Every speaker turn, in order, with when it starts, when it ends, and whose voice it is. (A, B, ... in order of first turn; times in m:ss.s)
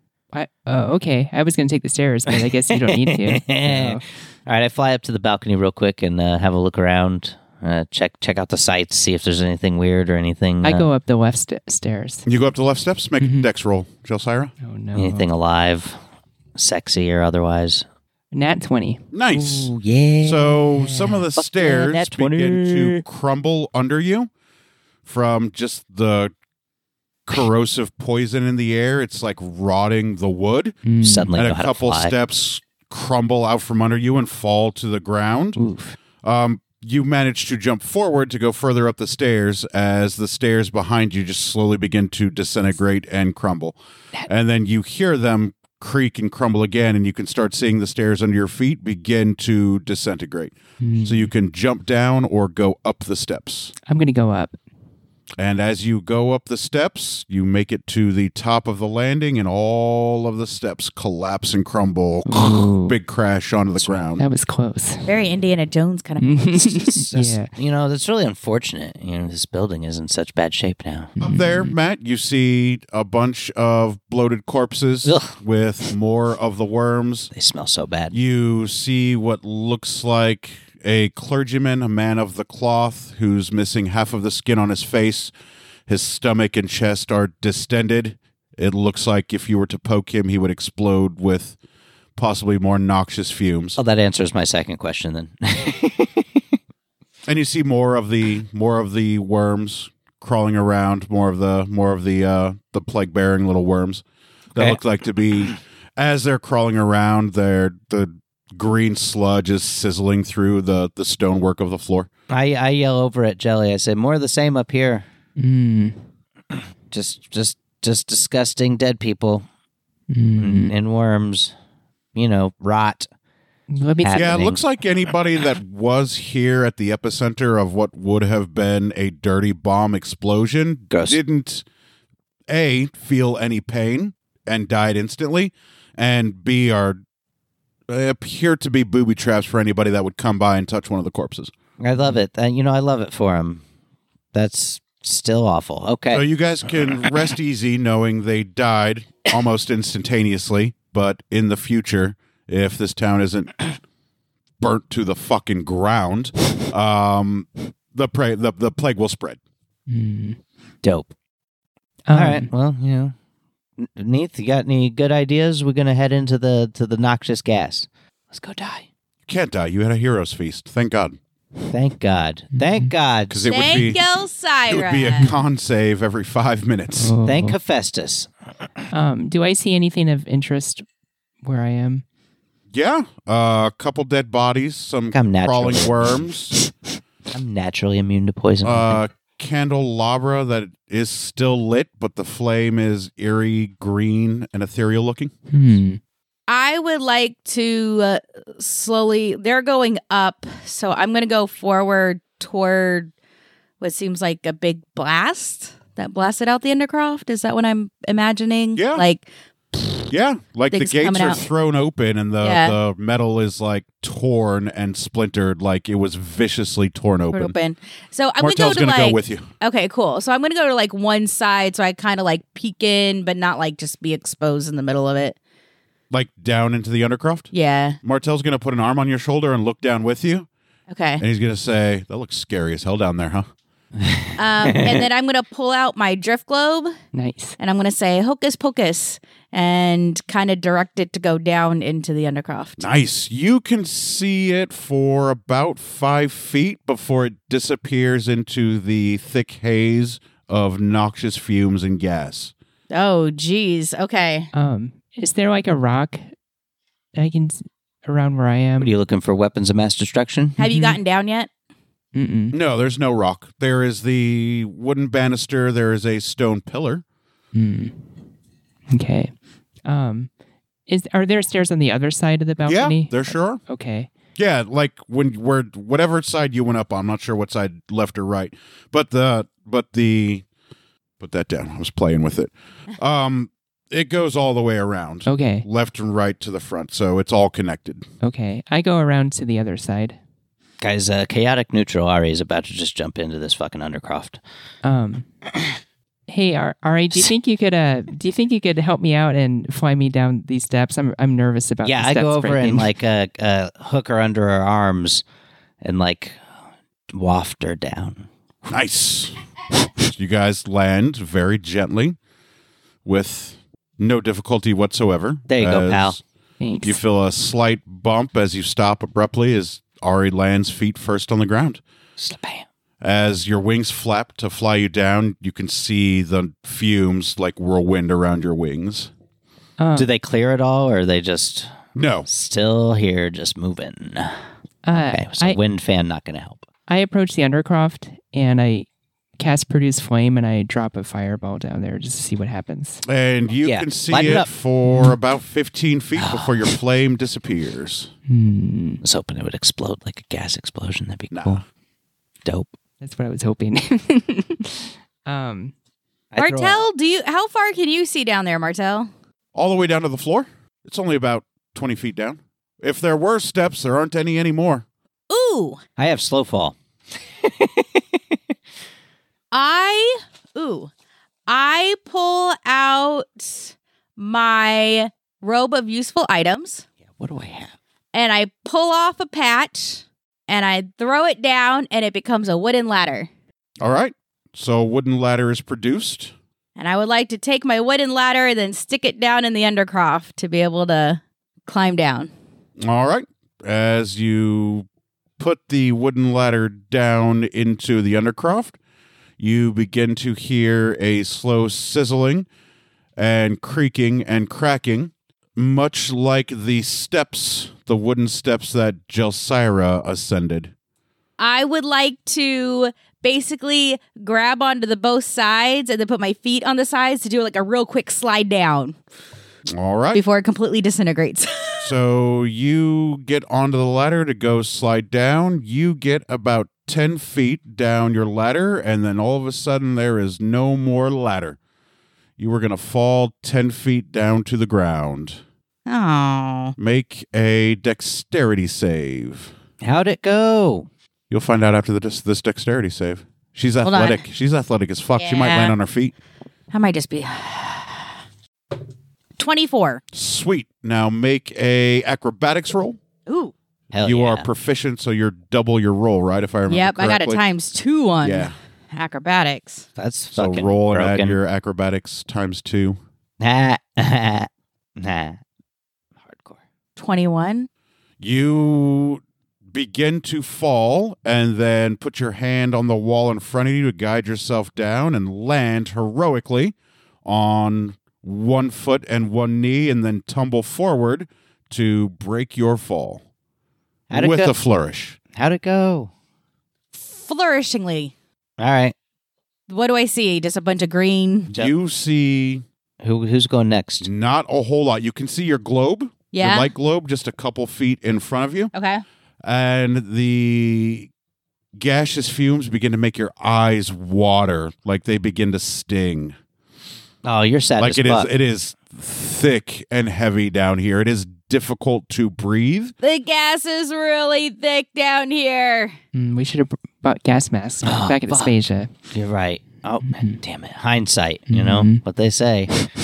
0:00.3-0:04.0 A
0:02.3-0:10.9 B
0:10.6-0:12.2 A
0:12.2-0:14.5 C
0:13.2-0:13.5 A
0:14.6-0:15.3 A
0:14.9-0:16.0 B
0:16.6-0:17.8 B
0:18.3-0:19.0 A
0:19.1-0:24.3 C
0:19.3-0:23.0 B
0:25.0-0:26.3 C
0:27.2-0:30.8 C
0:30.8-0:31.3 A
0:31.0-0:32.1 B
0:31.3-0:35.6 C
0:35.6-0:35.8 A
0:36.2-0:53.7 C
0:50.8-0:51.3 A
0:53.9-0:54.6 A
0:55.4-1:04.2 C
1:02.2-1:03.0 A
1:03.8-1:05.1 A
1:05.0-1:06.8 D
1:06.2-1:07.5 A
1:06.8-1:11.1 B
1:11.2-1:11.7 A
1:11.2-1:17.3 C
1:15.0-1:15.4 B
1:17.3-1:18.1 B
1:18.1-1:25.3 C
1:25.9-1:31.6 C
1:32.2-1:33.8 C
1:33.8-1:36.2 B
1:37.3-1:44.0 C
1:44.5-1:52.1 C
1:52.3-1:55.0 B
1:55.4-1:56.0 A
1:56.9-1:59.4 B
2:00.1-2:00.7 A
2:00.4-2:01.5 B
2:02.1-2:03.1 B
2:03.7-2:04.3 A
2:04.0-2:04.6 B
2:04.1-2:11.6 C
2:10.9-2:11.2 B
2:12.5-2:17.0 C
2:17.9-2:21.5 C
2:21.8-2:23.6 B
2:24.3-2:26.2 B
2:26.1-2:33.8 C
2:34.6-2:39.4 C
2:39.9-2:40.4 A
2:40.8-2:41.1 B
2:42.1-2:42.5 A
2:42.1-2:43.1 B
2:43.8-2:48.9 B
2:49.2-2:51.2 C
2:51.7-2:53.7 B
2:52.6-2:52.9 A
2:53.3-2:54.0 C
2:53.5-2:55.3 D
2:54.7-2:57.1 C
2:56.9-2:57.6 A
2:57.2-2:58.3 B
2:58.9-3:00.8 A
3:01.4-3:02.0 A
3:02.7-3:06.5 C
3:05.1-3:06.3 B
3:07.3-3:09.0 B
3:08.6-3:15.3 C
3:15.5-3:16.0 A
3:16.5-3:23.1 D
3:23.8-3:29.9 D
3:28.7-3:29.0 C
3:30.1-3:37.5 C
3:30.7-3:31.4 D
3:32.4-3:32.8 D
3:37.3-3:45.4 D
3:38.4-3:39.4 C
3:46.1-3:47.5 C
3:47.5-3:48.0 D
3:48.0-3:50.5 C
3:50.9-3:51.2 D
3:51.2-3:53.4 C
3:54.0-3:55.0 B
3:54.4-3:56.9 D
3:57.1-3:57.6 A
3:57.6-4:02.8 D
4:02.8-4:12.5 C
4:12.9-4:14.5 D
4:14.5-4:16.3 A
4:17.2-4:18.9 A
4:18.8-4:20.6 B
4:20.6-4:21.5 D
4:20.6-4:21.0 A
4:22.1-4:22.6 A
4:22.5-4:27.0 C
4:27.5-4:28.0 A
4:28.9-4:29.3 A
4:29.8-4:30.3 A
4:30.9-4:34.1 A
4:32.6-4:33.6 C
4:34.4-4:40.4 C
4:41.2-4:48.0 C
4:45.3-4:45.6 A
4:48.2-4:50.2 A
4:50.8-4:54.4 B
4:54.8-4:55.3 A
4:56.3-5:02.9 A
5:01.8-5:05.2 B
5:05.8-5:06.4 B
5:07.1-5:08.3 B
5:08.7-5:09.4 C
5:10.0-5:12.2 C
5:13.0-5:16.2 C
5:15.5-5:16.2 B
5:16.6-5:17.0 A
5:16.8-5:21.8 C
5:22.2-5:22.6 B
5:23.0-5:29.1 C
5:29.8-5:30.1 A
5:30.0-5:31.7 B
5:31.9-5:32.3 C
5:32.3-5:34.4 B
5:34.8-5:35.6 A
5:34.9-5:36.7 B
5:36.9-5:38.9 A
5:39.4-5:43.0 A
5:43.0-5:48.1 C
5:43.6-5:44.5 B
5:44.8-5:45.2 A
5:46.2-5:46.7 B
5:48.3-5:49.0 A
5:49.0-5:51.6 B
5:51.3-5:51.6 C
5:52.4-5:52.7 B
5:53.0-5:55.7 A
5:56.3-5:56.8 B
5:56.4-5:59.1 D
5:59.5-6:04.8 C
6:05.3-6:05.8 D
6:06.0-6:06.7 B
6:07.4-6:08.0 B
6:09.5-6:10.9 D
6:11.5-6:16.8 D
6:17.2-6:17.7 B
6:18.1-6:23.3 D
6:23.8-6:26.3 C
6:26.8-6:32.3 D
6:32.8-6:34.9 C
6:35.4-6:38.8 C
6:39.4-6:42.5 C
6:43.2-6:50.7 C
6:51.4-6:59.0 D
6:59.7-7:00.2 C
7:00.1-7:01.9 D
7:01.8-7:11.6 C
7:12.4-7:15.4 C
7:15.8-7:16.7 D
7:16.8-7:19.5 C
7:19.8-7:20.9 B
7:21.3-7:26.1 C
7:23.8-7:24.2 D
7:25.1-7:25.8 D
7:26.7-7:28.1 D
7:29.4-7:30.0 D
7:30.1-7:33.0 C
7:33.2-7:33.5 D
7:33.9-7:34.5 B
7:34.0-7:37.4 C
7:36.7-7:39.8 D
7:38.2-7:38.5 C
7:40.0-7:41.4 B
7:40.3-7:43.0 C
7:43.4-7:45.4 B
7:46.2-7:46.6 B
7:47.0-7:47.7 D
7:48.2-8:03.2 C
8:04.1-8:04.5 B
8:04.1-8:05.2 C
8:05.3-8:06.1 B
8:07.0-8:08.1 D
8:08.6-8:08.9 B
8:09.7-8:11.5 D
8:11.5-8:12.6 C
8:13.0-8:14.1 B
8:14.0-8:18.7 C
8:16.3-8:16.7 D
8:18.7-8:19.0 D
8:19.4-8:21.1 C
8:21.7-8:26.3 C
8:27.2-8:28.3 B
8:27.8-8:32.9 C
8:33.0-8:35.9 D
8:36.1-8:38.9 A
8:37.8-8:38.5 B
8:39.1-8:42.8 B
8:40.0-8:40.4 A
8:41.5-8:42.0 A